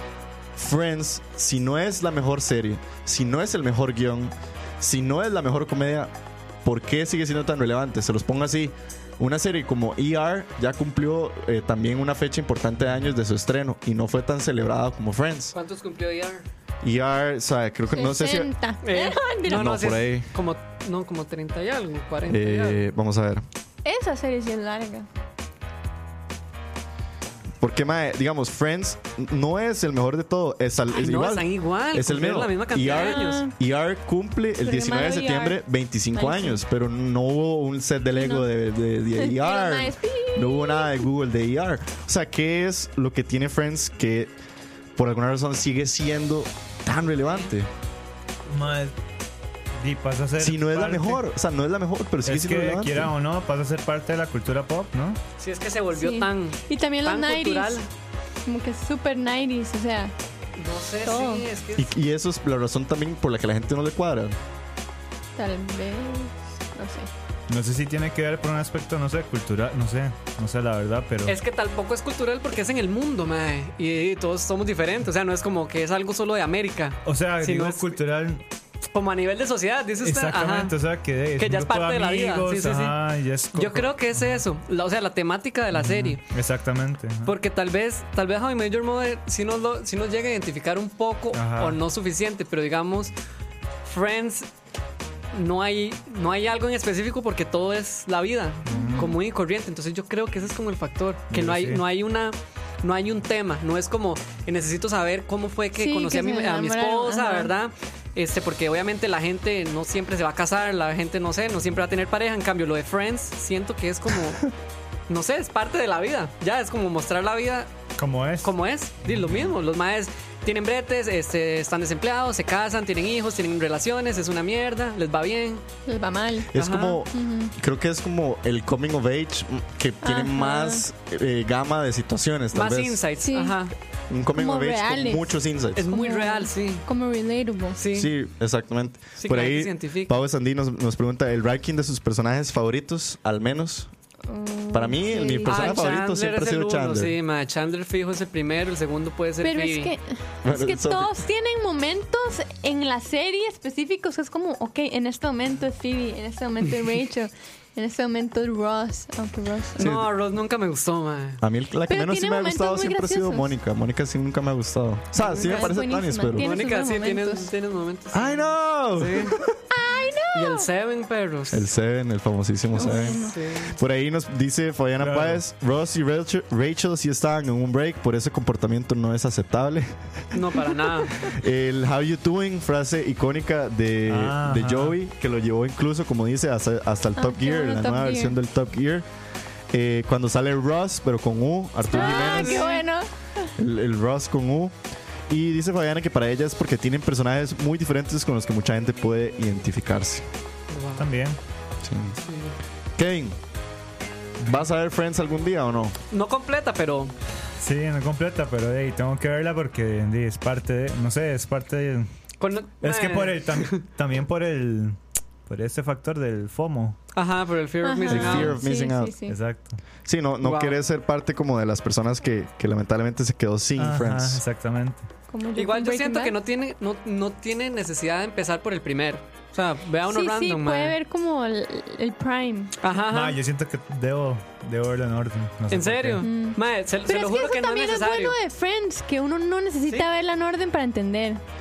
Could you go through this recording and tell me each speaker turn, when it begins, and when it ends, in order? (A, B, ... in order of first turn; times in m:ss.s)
0:00.6-0:06.1 A
0:06.6-0:15.5 A
0:15.5-0:16.4 B
0:16.8-0:18.5 A
0:17.9-0:19.8 C
0:18.8-0:22.8 B
0:19.5-0:20.3 A
0:22.3-0:23.4 A
0:23.8-0:25.1 C
0:27.6-0:44.3 A
0:30.9-0:33.5 B
0:32.8-0:33.5 C
0:34.6-0:35.6 C
0:36.1-0:36.6 C
0:38.2-0:38.5 C
0:39.2-0:41.1 C
0:45.0-0:47.7 A
0:48.5-0:48.9 D
0:49.8-0:51.2 D
0:50.4-0:53.1 A
0:52.2-0:55.2 D
0:55.4-0:57.9 B
0:55.9-0:57.8 C
0:58.4-1:00.1 C
1:00.6-1:01.9 B
1:01.0-1:01.4 C
1:01.8-1:04.4 A
1:05.4-1:07.1 C
1:07.5-1:11.4 D
1:11.2-1:18.0 B
1:17.0-1:18.4 D
1:18.9-1:20.7 B
1:20.0-1:24.4 D
1:21.4-1:23.0 B
1:23.5-1:26.2 B
1:25.7-1:27.3 D
1:27.2-1:33.1 B
1:31.3-1:31.8 D
1:33.8-1:34.5 B
1:35.3-1:54.5 B
1:38.6-1:39.1 D
1:38.7-1:39.2 C
1:41.3-1:41.8 D
1:45.8-1:47.5 C
1:55.1-1:57.7 B
1:58.0-1:59.5 D
1:58.4-2:05.6 B
2:05.8-2:06.5 C
2:06.5-2:13.0 A
2:06.6-2:07.0 B
2:07.0-2:07.5 C
2:10.0-2:10.8 C
2:12.5-2:13.7 B
2:13.2-2:13.6 C
2:14.1-2:15.8 A
2:14.3-2:15.4 C
2:15.8-2:16.8 B
2:15.9-2:17.8 C
2:17.8-2:18.1 B
2:17.9-2:23.9 A
2:19.2-2:20.1 B
2:24.3-2:25.9 C
2:24.7-2:27.2 A
2:25.4-2:29.9 B
2:29.4-2:39.9 C
2:30.4-2:31.1 A
2:39.8-2:41.4 B
2:39.8-2:40.1 A
2:41.4-2:46.5 A
2:41.9-2:43.5 C
2:45.2-2:45.7 B
2:45.2-2:47.5 C
2:46.4-2:49.4 B
2:48.1-2:49.6 A
2:49.7-2:50.7 C
2:50.3-2:51.6 B
2:51.5-3:00.6 A
2:52.8-2:53.4 C
2:52.8-2:53.8 B
2:55.0-2:55.4 D
3:00.3-3:01.3 B
3:01.2-3:09.0 A
3:04.1-3:05.0 D
3:07.2-3:08.3 C
3:09.7-3:12.7 A
3:11.9-3:13.5 C
3:11.9-3:12.8 B
3:13.6-3:14.7 A
3:15.3-3:20.2 A
3:20.7-3:21.1 B
3:21.0-3:21.4 D
3:21.8-3:22.2 A
3:22.2-3:22.6 B
3:23.0-3:23.4 A
3:24.4-3:26.0 A
3:26.1-3:27.1 B
3:27.6-3:32.1 D
3:32.4-3:33.8 B
3:32.8-3:37.0 D
3:37.1-3:38.6 B
3:37.8-3:39.4 C
3:38.1-3:39.2 A
3:39.3-3:39.8 D
3:40.0-3:44.4 A
3:40.4-3:40.8 B
3:43.8-3:45.0 D
3:45.3-3:46.3 C
3:45.5-3:51.0 B
3:50.1-3:52.7 C
3:52.8-3:53.4 B
3:53.1-3:56.2 D
3:55.7-3:58.4 B
3:56.2-4:01.4 C